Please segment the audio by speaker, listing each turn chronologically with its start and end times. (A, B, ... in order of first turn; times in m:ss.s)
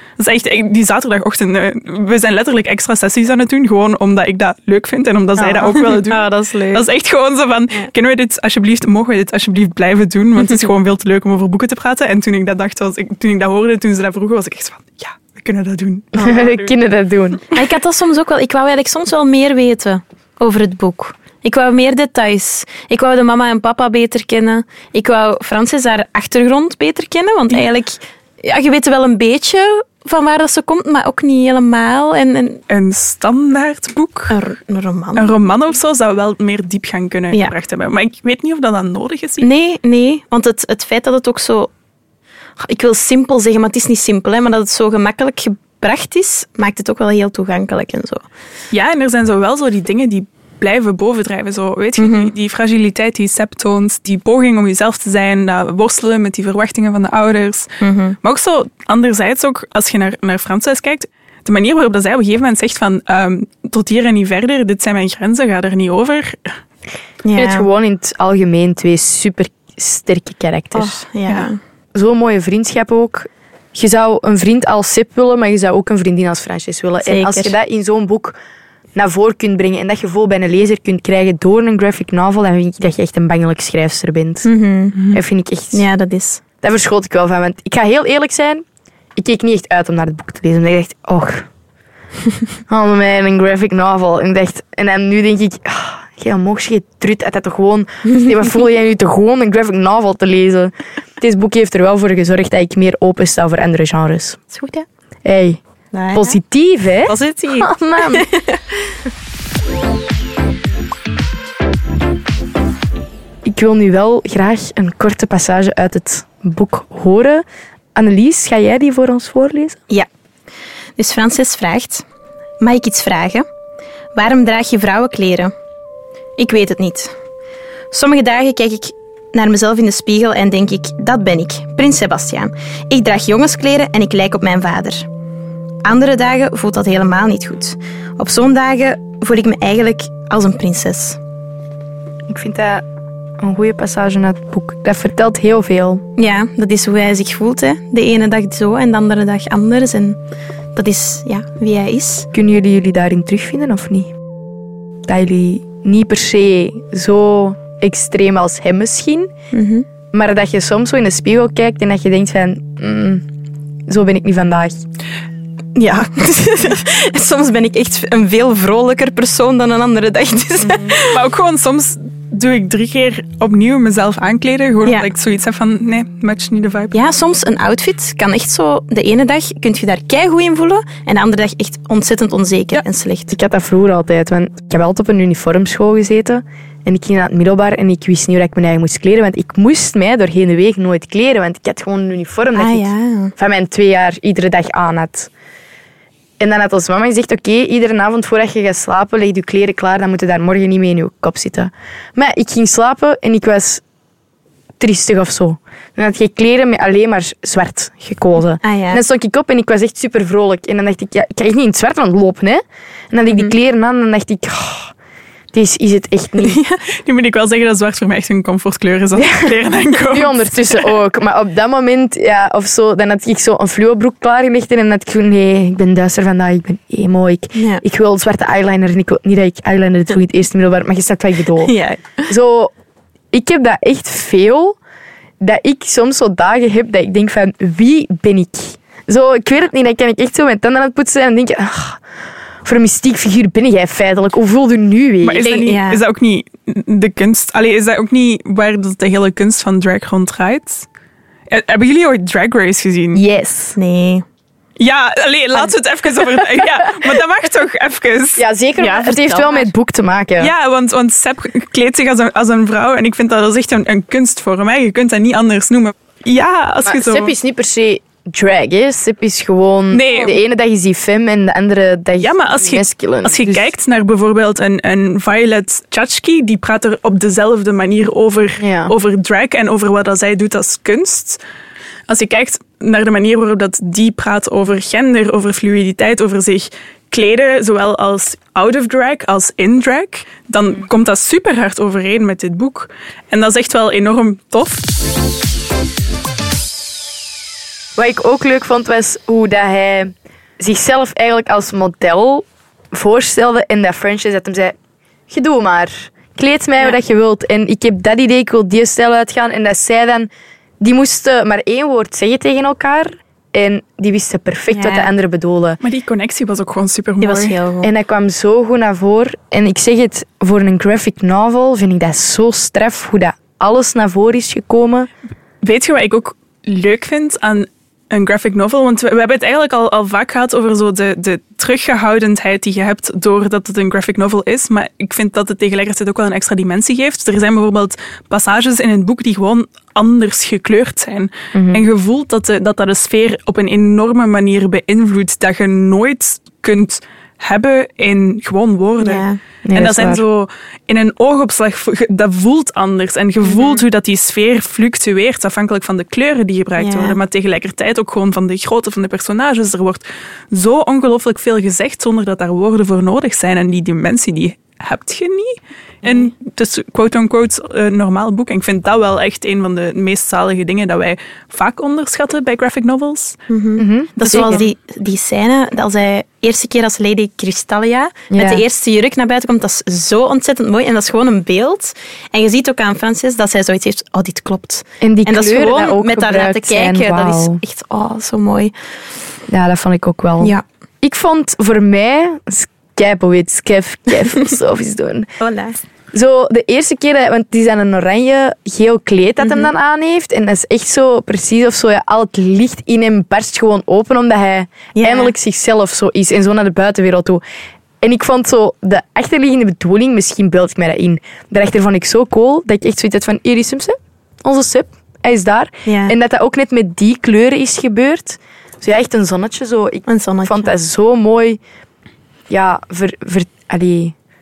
0:00.2-0:16.7 A
0:05.4-0:05.7 B
0:05.7-0:06.9 C
0:16.1-0:17.5 B
0:17.5-0:32.6 C
0:32.7-0:34.4 A
0:34.3-0:35.4 C
0:35.2-0:39.5 A
0:39.4-0:41.7 C
0:42.6-0:48.2 C
0:48.7-1:06.6 A
0:52.0-0:52.3 C
0:57.8-0:58.2 C
1:07.2-1:07.7 C
1:07.4-1:11.0 B
1:10.7-1:11.6 C
1:11.9-1:18.4 B
1:17.0-1:17.6 C
1:19.0-1:24.5 B
1:24.4-1:25.0 C
1:25.1-1:25.9 B
1:25.7-1:26.4 C
1:26.6-1:28.6 B
1:29.2-1:31.5 B
1:32.7-1:44.4 B
1:44.5-1:44.9 C
1:45.2-1:45.6 B
1:45.9-1:46.4 C
1:46.1-1:48.3 B
1:47.1-1:49.0 C
1:53.4-1:57.4 B
1:58.0-1:59.8 B
2:01.0-2:02.0 C
2:02.6-2:03.4 C
2:04.2-2:05.5 C
2:06.4-2:07.1 C
2:07.9-2:15.1 C
2:15.8-2:21.2 C
2:22.3-2:22.8 B
2:23.4-2:26.0 B
2:26.2-2:30.2 C
2:30.8-2:32.3 C
2:32.3-2:34.1 B
2:35.1-2:39.3 B
2:39.5-2:39.9 C
2:40.1-2:43.2 B
2:43.9-2:44.8 B
2:45.8-2:51.2 C
2:51.1-2:57.0 A
2:56.9-3:03.4 C
3:03.3-3:15.3 B
3:12.6-3:13.3 C
3:16.4-3:23.8 B
3:24.8-3:34.9 B
3:28.6-3:29.0 C
3:35.5-3:36.6 B
3:36.4-3:36.8 C
3:37.0-3:40.9 A
3:39.2-3:39.6 B
3:40.1-3:51.7 B
3:47.6-3:47.8 C
3:51.6-3:52.2 C
3:52.3-3:52.7 B
3:53.3-3:54.8 B
3:55.4-4:02.0 B
4:02.6-4:05.7 B
4:05.2-4:10.9 A
4:05.6-4:06.0 C
4:11.5-4:13.2 A
4:13.1-4:13.8 B
4:13.8-4:14.2 C
4:14.8-4:19.5 A
4:18.4-4:20.5 B
4:20.4-4:27.3 A
4:26.8-4:33.7 B
4:29.9-4:30.4 A
4:32.2-4:41.4 A
4:38.6-4:38.9 B
4:42.1-4:54.8 A
4:58.0-5:04.7 B
5:05.3-5:15.8 B
5:14.7-5:15.1 C
5:15.8-5:17.6 A
5:17.2-5:17.9 C
5:17.8-5:25.1 B
5:25.6-6:13.4 A
5:41.5-5:41.8 B
5:49.0-5:49.4 C
5:49.7-5:50.2 B
5:53.5-5:53.8 C
5:56.8-5:57.2 C
6:13.5-6:28.7 C
6:13.8-6:14.7 B
6:14.2-6:14.6 A
6:18.3-6:18.6 B
6:25.0-6:27.6 B
6:29.5-6:35.3 B
6:35.4-6:35.8 C
6:36.1-6:47.4 B
6:39.4-6:39.7 C
6:45.0-6:45.3 C
6:48.0-7:01.6 B
6:55.9-6:56.1 C
7:00.1-7:00.7 C
7:02.5-7:04.1 B